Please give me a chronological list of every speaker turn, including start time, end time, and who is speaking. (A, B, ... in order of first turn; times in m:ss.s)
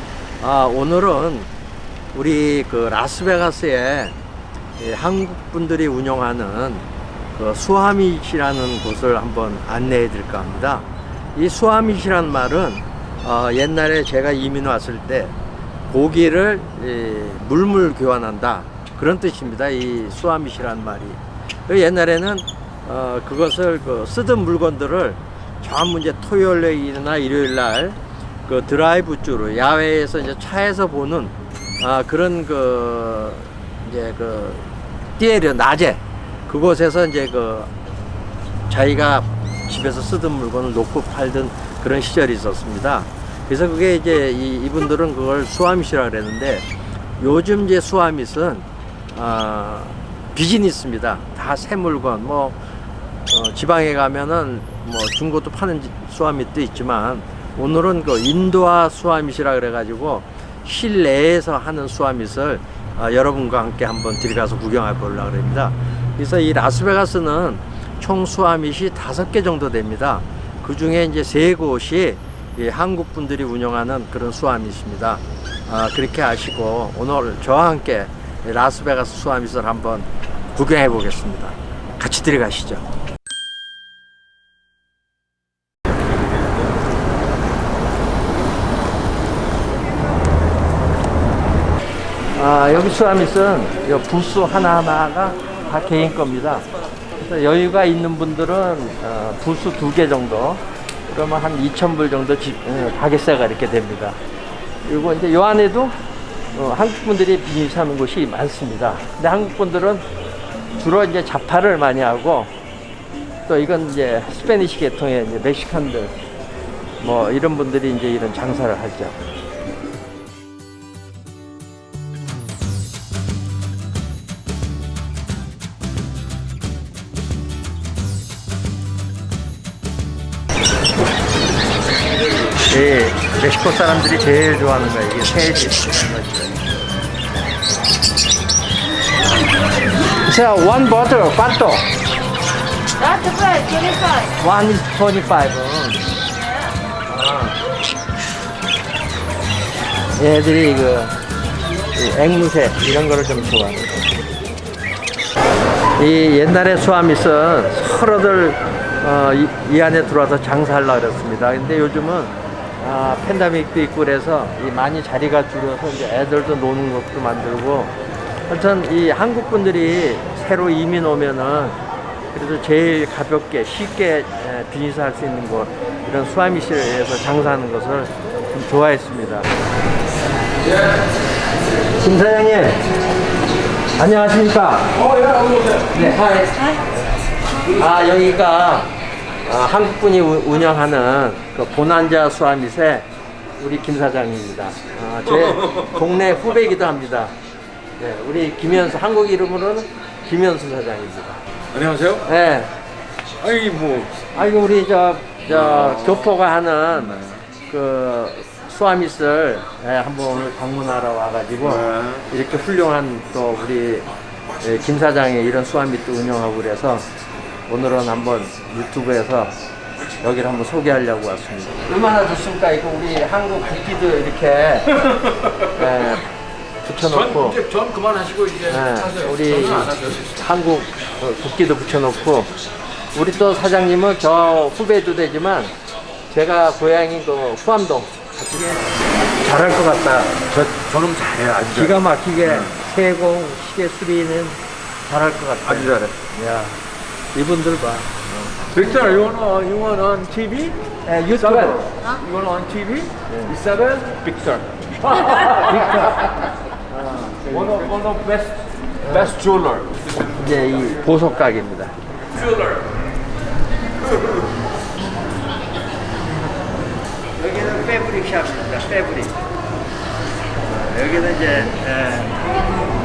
0:00.4-0:01.5 A
0:02.1-0:04.1 A
0:04.8-0:06.8 A
0:07.4-0:15.3 A
0:15.9-0:34.7 A
0:35.2-0:37.7 A
0:38.7-0:46.6 A
0:47.2-0:52.6 A
0:53.3-1:22.8 A
1:32.3-1:36.6 A
1:37.2-1:44.2 A
1:44.8-1:45.9 A
1:46.5-1:50.0 A
1:50.8-1:52.5 A
1:53.5-1:56.1 A
1:57.0-1:59.2 A
2:12.7-2:16.7 A
2:20.2-2:21.9 A
2:24.3-2:26.0 A
2:27.0-2:27.6 A
2:30.2-2:31.1 A
2:31.9-2:34.1 A
2:36.0-2:48.0 A
2:48.5-2:51.8 A
2:52.3-2:59.5 A
3:01.9-3:02.8 A
3:04.0-3:05.0 A
3:05.8-3:06.7 A
3:07.7-3:08.9 A
3:09.4-3:13.0 A
3:13.6-3:17.3 A
3:18.0-3:21.4 A
3:21.7-3:22.2 B
3:22.2-3:22.7 A
3:23.4-3:24.2 B
3:24.3-3:34.1 A
3:34.6-3:37.0 A
3:37.7-3:39.6 A
3:40.2-3:45.0 A
3:45.6-3:46.3 A
3:46.8-3:47.7 A
3:47.4-3:50.2 B
3:48.6-3:52.5 A
3:53.1-3:55.7 A
3:56.3-4:00.4 A
4:00.5-4:02.7 B
4:01.7-4:06.8 A
4:05.6-4:06.2 B
4:07.3-4:08.2 A
4:08.6-4:10.8 B
4:11.0-4:11.9 A
4:11.3-4:16.0 B
4:13.3-4:13.6 A
4:15.4-4:16.2 A
4:16.9-4:17.5 A
4:17.5-4:19.9 B
4:19.0-4:19.4 A
4:20.3-4:21.9 A
4:27.4-4:29.4 A
4:30.6-4:32.4 A